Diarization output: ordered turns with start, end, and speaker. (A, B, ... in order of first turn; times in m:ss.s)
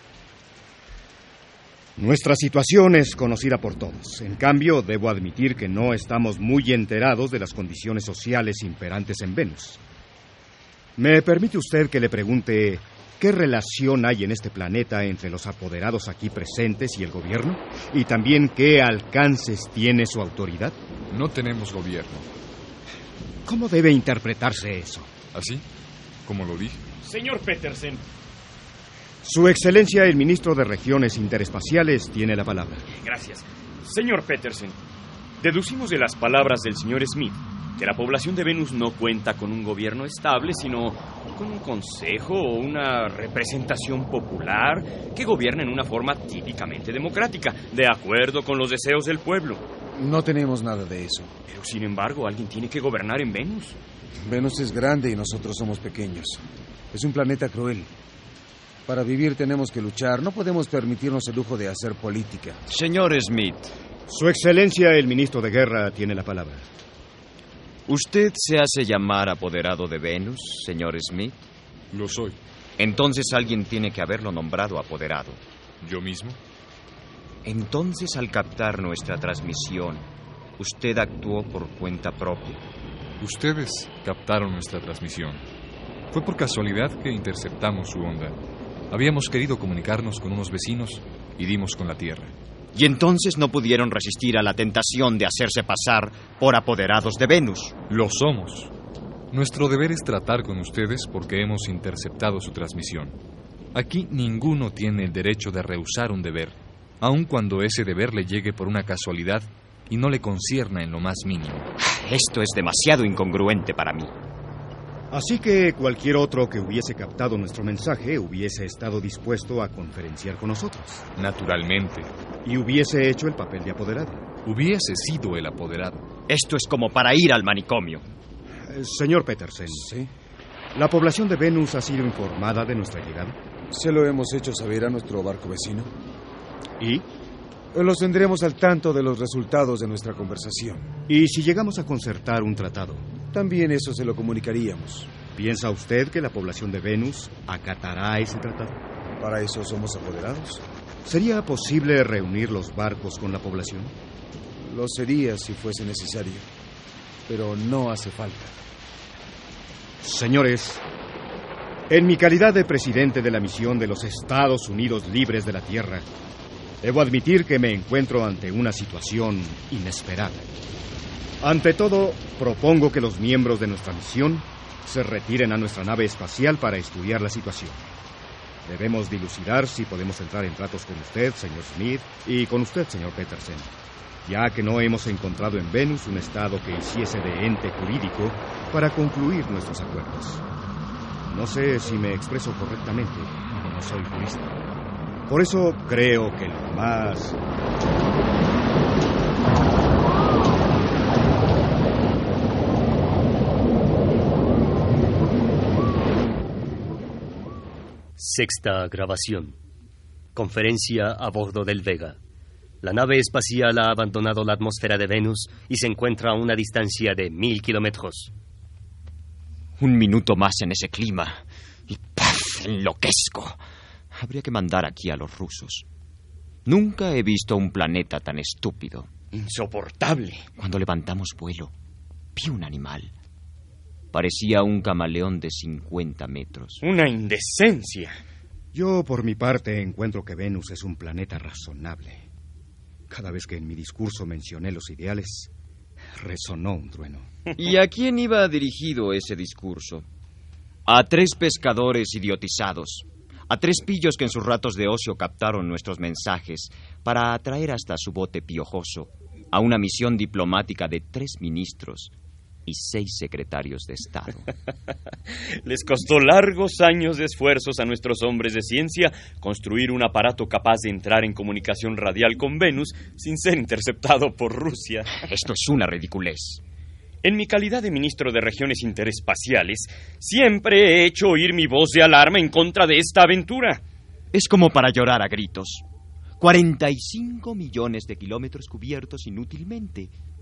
0:02.0-0:09.8 A
0:11.0-0:20.8 A
0:21.1-0:22.3 B
0:23.5-0:25.1 A
0:25.3-0:25.6 B
0:26.3-0:26.8 B
0:27.0-0:28.0 C
0:29.2-0:32.9 A
0:32.9-0:34.8 C
0:35.4-0:49.7 C
0:50.0-0:51.4 D
0:51.5-0:53.8 C
0:54.2-0:57.9 D
0:58.9-1:02.6 D
1:02.7-1:03.7 E
1:04.1-1:06.7 A
1:07.9-1:11.4 E
1:11.9-1:12.4 B
1:12.8-1:15.4 E
1:15.8-1:16.4 B
1:17.4-1:20.1 E
1:20.6-1:22.6 E
1:23.2-1:25.4 B
1:26.1-1:28.4 B
1:28.9-1:32.3 B
1:32.7-1:37.8 E
1:37.9-1:38.7 B
1:39.3-1:43.2 B
1:43.7-1:51.7 B
1:51.8-1:54.2 E
1:55.1-2:01.1 A
2:01.2-2:02.1 B
2:02.4-2:04.2 A
2:04.4-2:06.0 B
2:06.3-2:08.0 E
2:08.7-2:09.9 A
2:09.7-2:10.1 D
2:10.7-2:13.4 A
2:13.7-2:15.9 D
2:16.8-2:17.0 A
2:17.7-2:20.9 D
2:21.1-2:23.1 A
2:23.3-2:25.1 D
2:25.4-2:28.8 A
2:29.2-2:30.6 D
2:31.0-2:34.0 A
2:34.6-2:36.5 D
2:37.3-2:38.5 D
2:40.0-2:40.8 A
2:41.9-2:46.1 A
2:46.8-2:50.5 A
2:51.4-2:57.8 A
2:58.6-3:03.7 A
3:04.2-3:10.4 A
3:11.3-3:14.6 A
3:15.3-3:17.4 A
3:28.2-3:29.6 F
3:30.4-3:32.2 F
3:32.8-3:38.3 F
3:39.8-3:43.6 E
3:44.1-3:45.8 E
3:46.7-3:49.1 E
3:49.3-3:50.5 C
3:50.6-3:51.7 E
3:52.4-3:53.1 E
3:54.1-3:56.8 E
3:56.8-3:58.2 C
3:58.7-4:02.3 A
4:03.1-4:05.5 A
4:06.2-4:07.3 A
4:07.6-4:10.1 E
4:10.9-4:22.1 E
4:22.7-4:24.5 E
4:25.6-4:35.1 C
4:35.3-4:36.6 E
4:37.2-4:43.8 C
4:44.3-4:45.8 E
4:46.4-4:50.1 E